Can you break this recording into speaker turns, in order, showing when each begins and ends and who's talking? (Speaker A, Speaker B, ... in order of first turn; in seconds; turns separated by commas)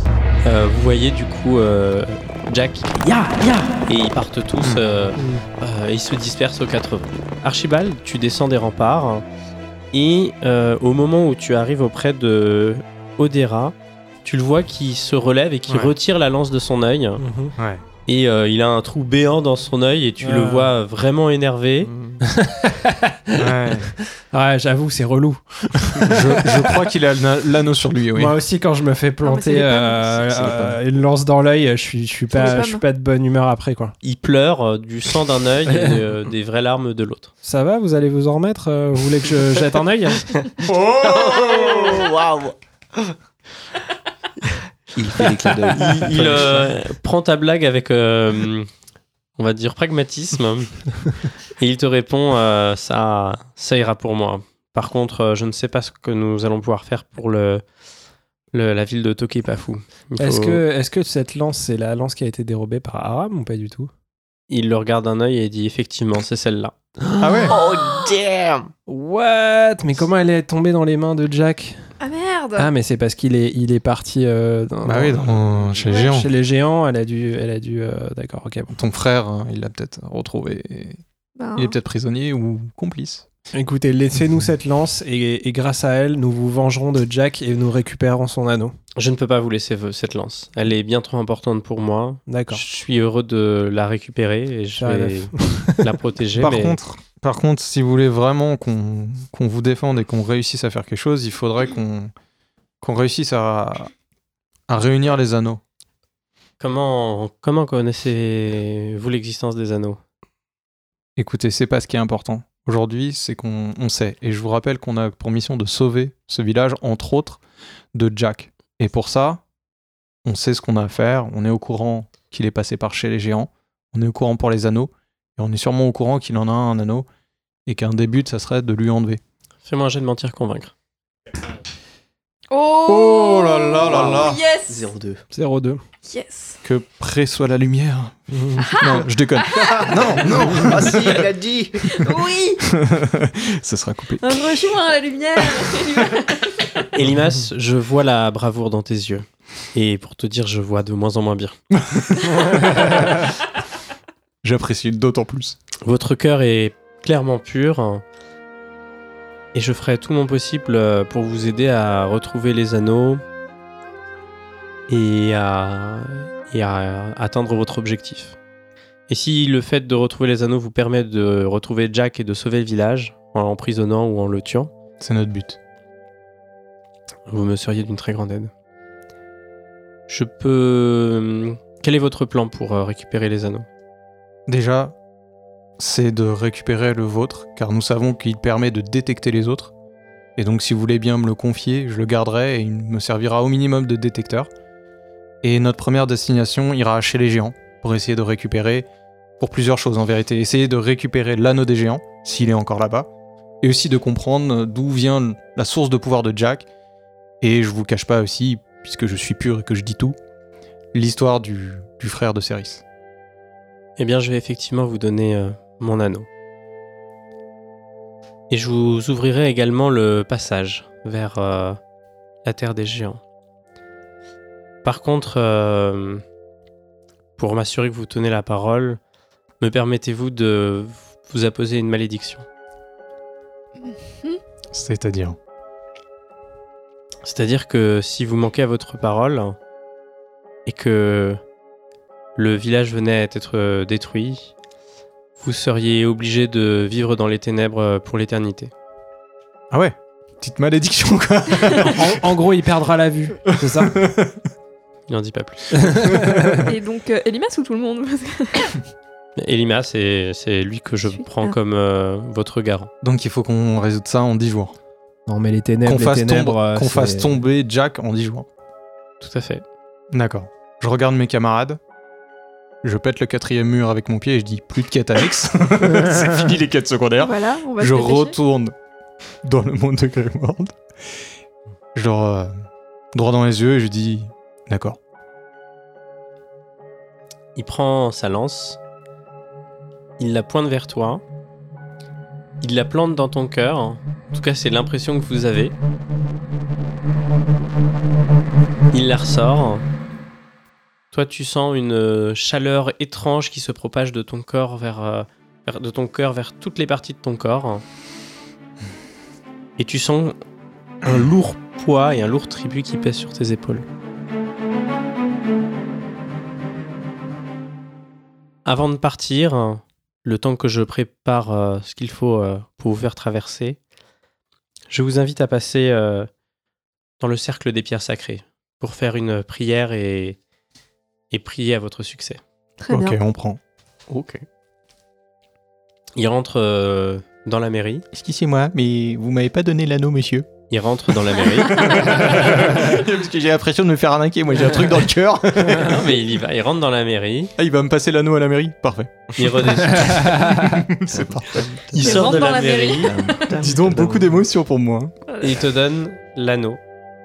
Speaker A: 0.4-9.2, Speaker B: 5.2-5.4, Speaker A: 9.9-17.2, Speaker C: 15.7-15.9, Speaker B: 17.2-17.5, Speaker C: 17.6-17.8, Speaker A: 18.1-21.9, Speaker B: 20.2-20.7, Speaker D: 21.8-22.2, Speaker B: 22.2-26.9, Speaker C: 23.4-23.9, Speaker C: 26.1-28.4, Speaker B: 28.1-34.0, Speaker E: 29.2-30.6, Speaker D: 30.4-30.7, Speaker E: 32.3-32.8, Speaker A: 34.0-37.3, Speaker B: 35.7-36.0, Speaker B: 37.4-40.4, Speaker C: 40.6-42.1, Speaker D: 41.0-43.1, Speaker D: 45.0-46.5, Speaker A: 45.7-48.7, Speaker A: 49.4-50.8, Speaker A: 51.5-57.6, Speaker A: 58.5-60.6, Speaker B: 60.2-63.9, Speaker A: 64.5-66.8, Speaker B: 67.1-67.6, Speaker C: 67.2-67.6, Speaker D: 67.5-68.7, Speaker B: 68.9-71.8, Speaker E: 72.0-72.7, Speaker B: 72.6-78.7, Speaker C: 74.8-76.3, Speaker E: 75.9-76.2, Speaker C: 78.7-81.0, Speaker E: 81.4-81.8, Speaker C: 81.6-83.3, Speaker B: 83.5-88.8, Speaker A: 89.0-96.8, Speaker B: 92.3-92.6, Speaker B: 94.8-96.0, Speaker C: 96.4-102.1, Speaker C: 102.8-103.9, Speaker C: 104.7-105.6, Speaker A: 106.6-110.0, Speaker C: 111.2-117.4, Speaker C: 117.9-119.4, Speaker C: 120.2-127.1, Speaker C: 127.7-129.2, Speaker A: 129.7-130.7, Speaker E: 132.5-134.9, Speaker C: 132.9-134.4, Speaker D: 133.8-135.2, Speaker B: 135.3-135.8, Speaker E: 136.1-136.6, Speaker C: 136.6-141.3, Speaker B: 138.3-138.8, Speaker E: 138.6-140.2, Speaker D: 139.8-142.3, Speaker E: 141.8-142.6, Speaker C: 142.7-144.7, Speaker E: 144.2-146.8, Speaker A: 146.9-151.6, Speaker C: 151.7-153.2, Speaker C: 154.4-155.6, Speaker A: 155.8-158.0, Speaker A: 159.5-163.2, Speaker A: 164.9-168.4, Speaker A: 169.1-174.7, Speaker C: 175.0-175.6, Speaker A: 177.3-178.5, Speaker A: 180.1-183.7, Speaker C: 184.5-184.9, Speaker C: 185.8-189.7, Speaker C: 190.4-194.5, Speaker C: 195.4-198.9, Speaker C: 199.4-203.1, Speaker C: 203.6-206.7, Speaker C: 207.4-210.2, Speaker C: 210.9-212.8, Speaker A: 214.0-216.3, Speaker A: 218.5-221.8, Speaker A: 222.4-223.2, Speaker A: 224.8-226.2, Speaker A: 227.4-229.0, Speaker A: 229.6-232.5, Speaker E: 233.8-234.4, Speaker C: 234.7-235.4, Speaker A: 237.2-239.6, Speaker A: 240.7-241.4, Speaker A: 242.4-244.5, Speaker A: 245.4-248.7, Speaker C: 249.7-252.2, Speaker B: 251.8-254.0, Speaker C: 253.5-254.5, Speaker A: 255.1-256.1, Speaker B: 255.8-256.6, Speaker C: 256.1-256.6, Speaker E: 256.6-258.8, Speaker A: 259.4-262.9, Speaker E: 261.2-261.6, Speaker C: 263.0-264.8, Speaker B: 265.3-267.4, Speaker C: 265.9-268.5, Speaker A: 269.2-269.6, Speaker C: 270.1-271.8, Speaker C: 272.8-278.7, Speaker E: 277.2-278.4, Speaker C: 279.4-280.8, Speaker C: 281.9-282.5, Speaker C: 283.1-285.0, Speaker A: 287.6-288.8, Speaker A: 290.2-291.2, Speaker A: 292.6-295.7, Speaker A: 298.9-299.9, Speaker A: 301.1-307.8, Speaker A: 309.8-310.4, Speaker A: 311.0-313.9, Speaker A: 318.6-323.8, Speaker A: 324.9-326.3, Speaker A: 327.2-330.4, Speaker A: 331.3-332.4, Speaker E: 332.8-333.2, Speaker C: 332.9-333.6, Speaker D: 334.1-334.4, Speaker A: 336.2-338.1, Speaker C: 338.1-340.5, Speaker A: 340.7-342.5, Speaker C: 341.7-346.1, Speaker A: 345.7-347.5, Speaker C: 347.6-352.5, Speaker A: 349.4-350.3, Speaker B: 350.0-350.7, Speaker D: 351.2-354.4, Speaker A: 352.0-353.2, Speaker E: 352.0-353.5, Speaker C: 353.5-355.1, Speaker E: 355.3-355.6, Speaker A: 355.4-356.8